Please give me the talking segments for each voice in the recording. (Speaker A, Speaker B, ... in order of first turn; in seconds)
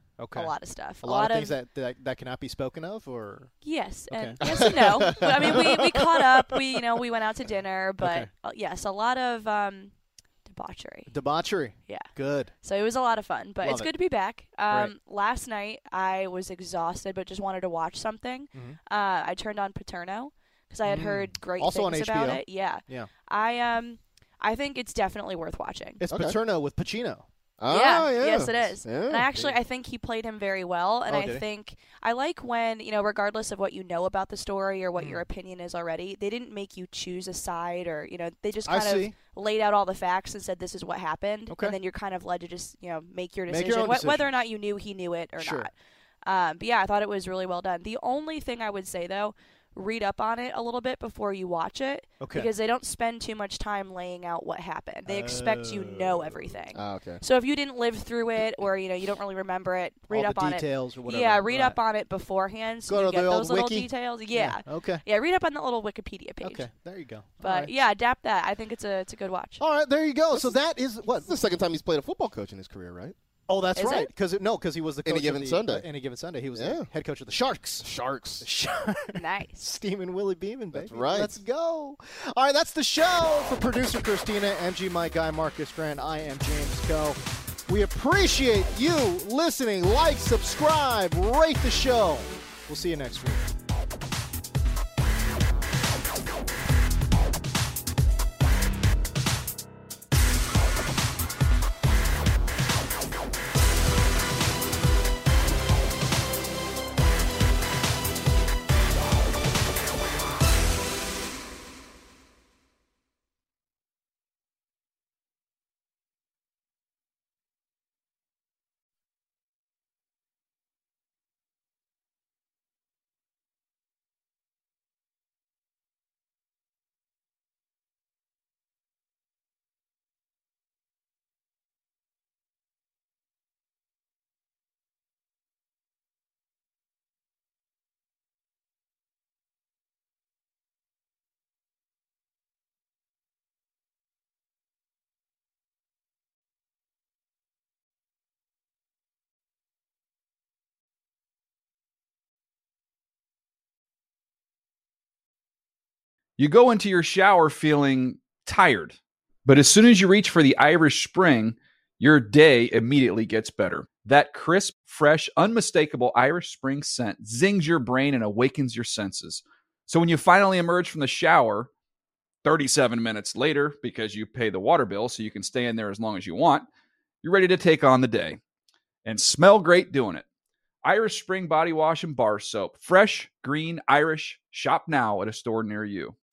Speaker A: 0.2-3.5, 4.1-6.6, 8.0-8.3, 11.1-12.5, 13.6-13.9, 20.9-23.1, 26.0-27.3, 29.2-29.6, 31.1-31.4, 35.0-35.2, 38.6-39.1, 41.5-41.8, 43.5-44.3, 45.4-45.7, 52.2-52.5, 55.1-56.5, 60.1-61.8, 62.9-65.0, 66.4-67.7, 69.6-71.3, 73.5-77.9, 78.4-93.5
Speaker B: 0.3-1.5, 3.6-9.9, 10.5-11.1, 12.6-26.0, 27.7-45.7, 46.2-66.7, 67.4-69.6, 73.8-74.1, 79.2-79.6
Speaker C: 27.6-29.3, 56.7-57.2, 70.3-70.6, 71.1-73.2, 75.0-75.9, 76.5-76.9, 77.8-78.5, 80.7-81.4
Speaker D: 156.4-171.7, 172.4-176.7, 177.2-178.4, 179.1-180.2, 180.8-186.2